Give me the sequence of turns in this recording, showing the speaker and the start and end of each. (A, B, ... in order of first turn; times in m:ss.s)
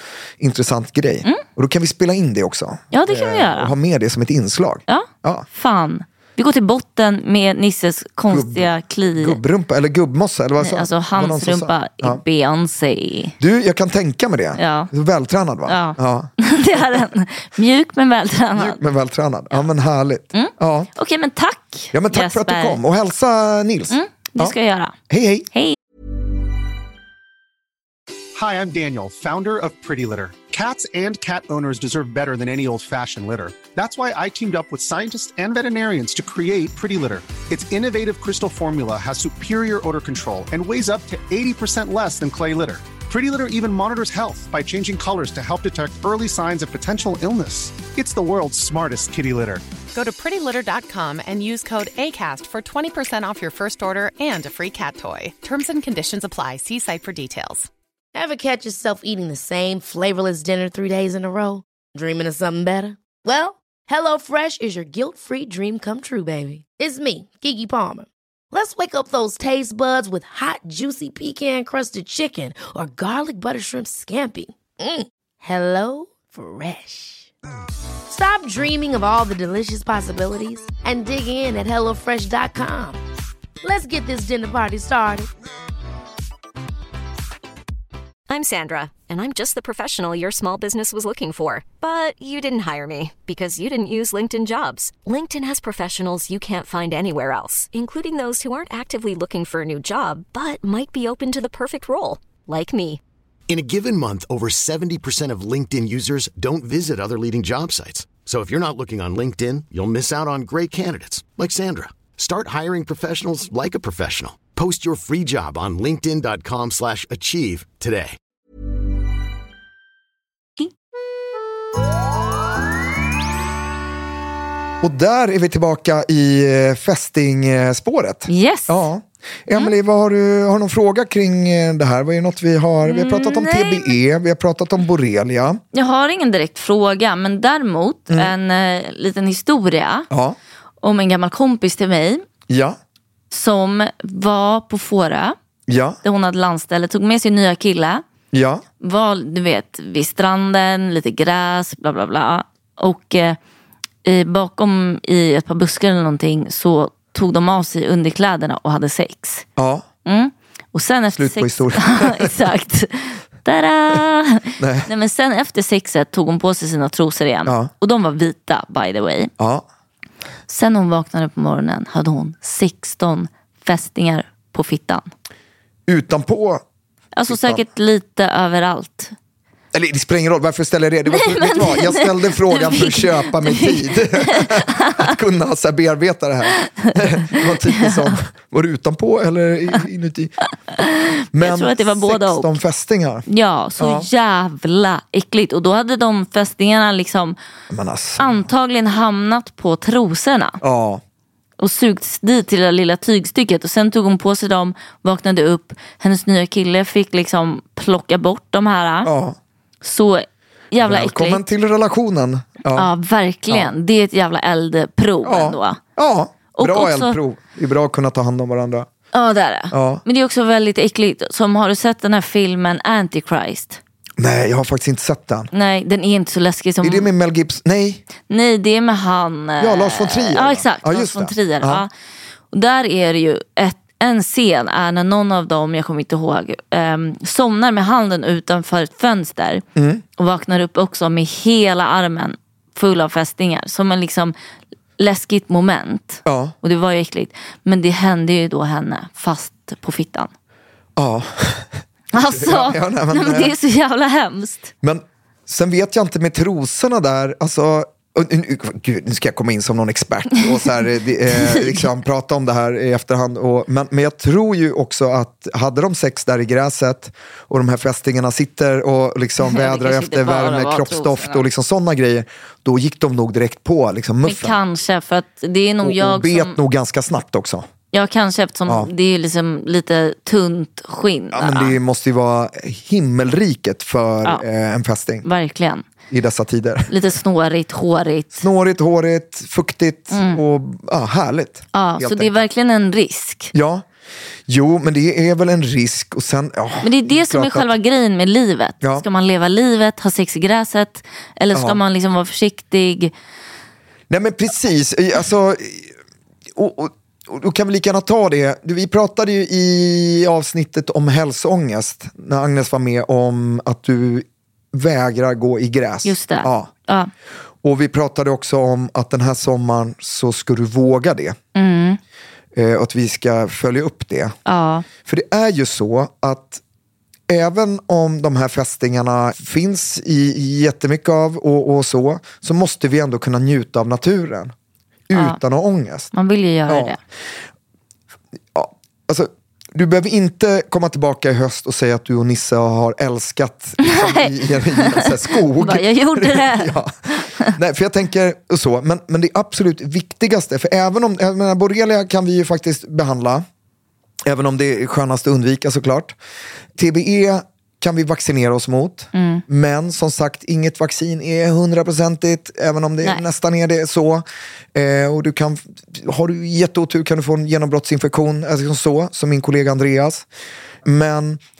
0:00.4-0:05.5 A
0:02.9-0:03.7 B
0:04.9-0:09.4 B
0:08.3-0:12.2 A
0:10.6-0:13.4 B
0:13.4-0:17.0 A
0:14.6-0:14.9 B
0:15.7-0:18.8 B
0:18.5-0:20.9 A
0:20.3-0:22.8 B
0:21.9-0:24.6 A
0:23.9-0:25.0 B
0:25.1-0:25.5 A
0:25.5-0:25.8 B
0:28.4-0:49.6 C
0:49.9-0:57.7 D
0:58.2-1:17.3 E
1:18.1-1:23.0 E
1:23.6-1:25.3 E
1:28.3-1:43.0 F
1:43.5-1:58.2 G
2:04.8-2:15.6 A
2:08.3-2:08.9 B
2:12.8-2:14.0 B
2:15.7-2:20.1 B
2:20.1-2:20.4 A
2:20.8-2:22.2 B
2:22.5-2:22.8 A
2:23.3-2:25.4 B
2:25.7-2:26.0 A
2:26.0-2:28.0 B
2:28.3-2:28.6 A
2:28.8-2:33.4 B
2:34.0-2:39.5 B
2:39.6-2:39.8 A
2:40.0-2:49.3 B
2:41.1-2:42.4 A
2:44.6-2:44.9 A
2:47.5-2:47.7 A
2:49.4-2:49.6 A
2:50.5-2:55.1 B
2:55.9-2:56.6 A
2:57.2-2:59.1 B
2:57.3-2:57.6 A
2:59.7-3:10.3 A
3:01.1-3:05.1 B
3:06.6-3:08.2 B
3:10.7-3:12.6 B
3:11.3-3:13.3 A
3:13.3-3:17.4 B
3:13.8-3:14.1 A
3:17.7-3:18.5 A
3:18.2-3:20.6 B
3:20.6-3:21.0 A
3:21.6-3:29.1 B
3:29.0-3:29.4 A
3:29.8-3:31.4 B
3:30.8-3:32.9 A
3:32.7-3:35.8 B
3:35.2-3:38.9 A
3:36.6-3:37.2 B
3:39.1-3:43.8 B
3:39.7-3:40.0 A
3:44.2-3:45.5 A
3:45.5-3:47.1 B
3:46.8-3:48.0 A
3:48.3-3:51.9 B
3:49.6-3:51.8 A
3:52.5-3:59.6 B
3:59.8-4:00.0 A
4:00.2-4:04.3 B
4:05.0-4:10.3 B
4:06.2-4:06.6 A
4:11.0-4:13.6 A
4:12.1-4:14.7 B
4:14.8-4:34.6 A
4:21.3-4:21.9 B
4:29.5-4:31.4 B
4:34.2-4:36.6 B
4:35.8-4:37.7 A
4:37.9-4:41.8 B
4:41.3-4:45.2 A
4:45.2-4:45.8 B
4:46.1-4:46.9 A
4:46.9-4:48.4 B
4:48.4-4:52.5 A
4:50.1-4:50.4 B
4:51.7-4:53.5 B
4:53.5-4:53.8 A
4:54.5-4:57.7 A
4:56.8-5:03.1 B
4:58.8-4:59.1 A
5:01.5-5:01.8 A
5:04.1-5:05.9 A
5:06.5-5:16.7 A
5:16.0-5:17.1 B
5:17.6-5:21.4 A
5:21.6-5:22.0 B
5:22.5-5:24.4 A
5:24.5-5:24.9 B
5:25.0-5:26.6 A
5:27.3-5:34.5 A
5:35.1-5:36.1 A
5:35.1-5:35.4 B
5:36.1-5:37.0 B
5:36.7-5:37.0 A
5:38.5-5:53.4 A
5:43.8-5:47.5 B
5:54.2-5:56.2 A
5:56.8-6:10.2 A
5:59.1-5:59.4 B
6:10.8-6:11.4 A